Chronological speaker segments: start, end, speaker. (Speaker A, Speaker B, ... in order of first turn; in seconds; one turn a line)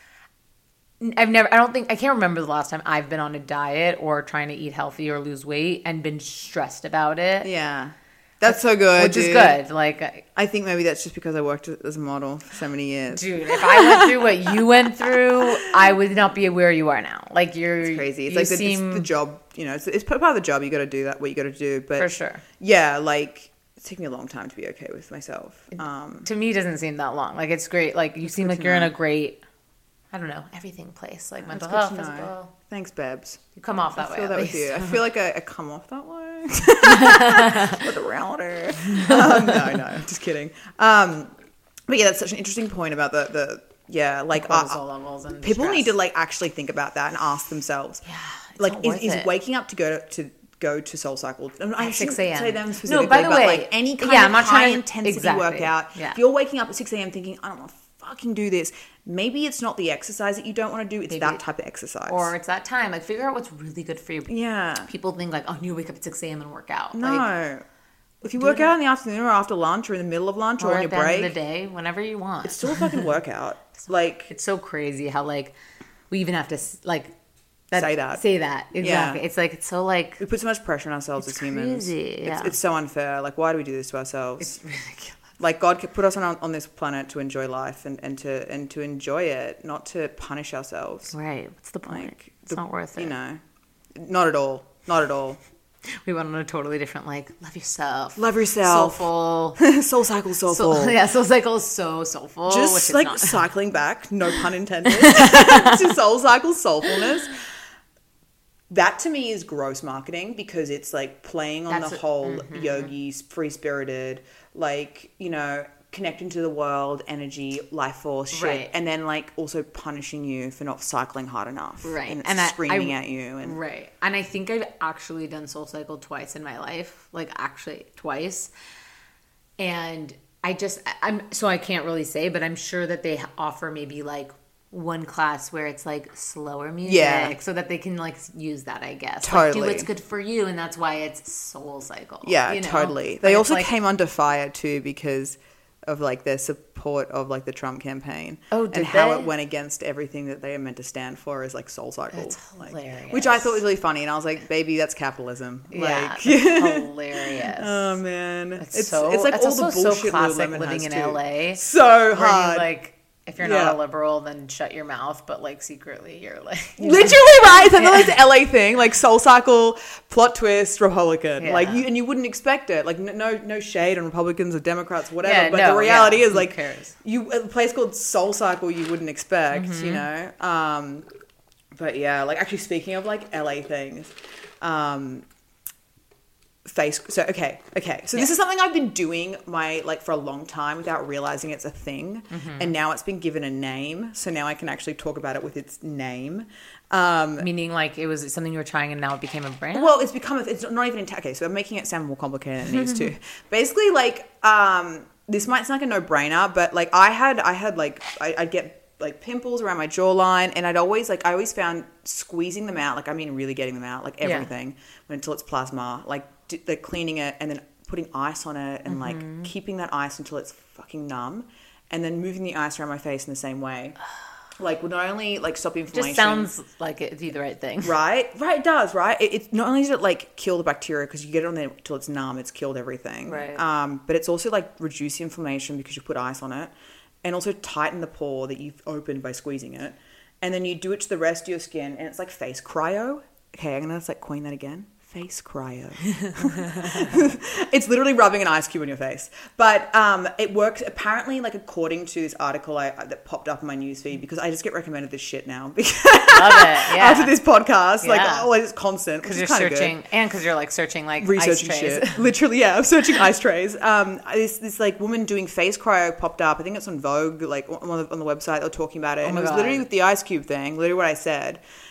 Speaker A: 1.0-7.5
Speaker B: 7.4-9.6
Speaker A: 8.5-10.2
Speaker B: 10.3-15.7
Speaker A: 13.1-19.1
Speaker B: 17.8-22.1
Speaker A: 22.0-22.4
Speaker B: 22.6-26.3
Speaker A: 26.3-29.4
Speaker B: 28.2-28.9
Speaker A: 30.1-32.5
Speaker B: 31.4-33.4
Speaker A: 33.6-35.0
Speaker B: 34.0-41.3
Speaker A: 36.8-37.8
Speaker A: 38.9-39.8
Speaker B: 41.9-44.8
Speaker A: 44.3-45.9
Speaker B: 45.4-48.0
Speaker A: 48.1-49.3
Speaker B: 48.6-62.3
Speaker A: 51.8-56.2
Speaker A: 61.1-61.4
Speaker A: 62.1-64.3
Speaker B: 64.3-64.9
Speaker A: 64.8-67.3
Speaker B: 66.9-67.6
Speaker B: 68.2-71.3
Speaker A: 68.4-68.7
Speaker A: 70.6-73.0
Speaker B: 72.4-74.3
Speaker A: 74.3-75.5
Speaker A: 76.1-77.1
Speaker A: 77.7-80.2
Speaker B: 77.8-78.2
Speaker B: 78.8-79.2
Speaker B: 80.2-84.6
Speaker A: 81.2-82.5
Speaker A: 84.4-85.2
Speaker B: 85.4-91.1
Speaker A: 91.1-93.1
Speaker B: 91.9-93.4
Speaker B: 94.0-95.4
Speaker A: 95.9-99.6
Speaker B: 98.2-101.0
Speaker A: 100.5-103.5
Speaker B: 102.5-107.4
Speaker A: 104.8-105.9
Speaker B: 108.7-123.6
Speaker A: 111.7-112.9
Speaker A: 118.3-118.7
Speaker A: 121.8-128.5
Speaker A: 129.6-143.7
Speaker B: 136.8-137.4
Speaker B: 139.2-139.9
Speaker B: 142.2-162.7
Speaker A: 148.5-149.3
Speaker A: 152.1-153.6
Speaker A: 155.7-158.0
Speaker A: 158.6-161.6
Speaker A: 162.1-168.2
Speaker B: 163.4-163.8
Speaker B: 166.8-181.1
Speaker A: 171.4-171.8
Speaker A: 175.2-176.9
Speaker A: 179.5-180.1
Speaker B: 181.8-185.2
Speaker B: 186.7-197.5
Speaker A: 192.3-192.8
Speaker A: 197.4-200.0
Speaker B: 199.7-224.0
Speaker A: 202.8-203.0
Speaker A: 214.2-214.5
Speaker A: 218.9-219.5
Speaker B: 224.6-226.5
Speaker A: 225.9-228.0
Speaker B: 227.8-236.7
Speaker A: 233.3-233.6
Speaker B: 237.2-260.0
Speaker A: 246.2-247.2
Speaker A: 256.3-257.4
Speaker A: 258.0-258.5
Speaker A: 259.2-262.2
Speaker B: 261.2-271.6
Speaker A: 269.2-269.9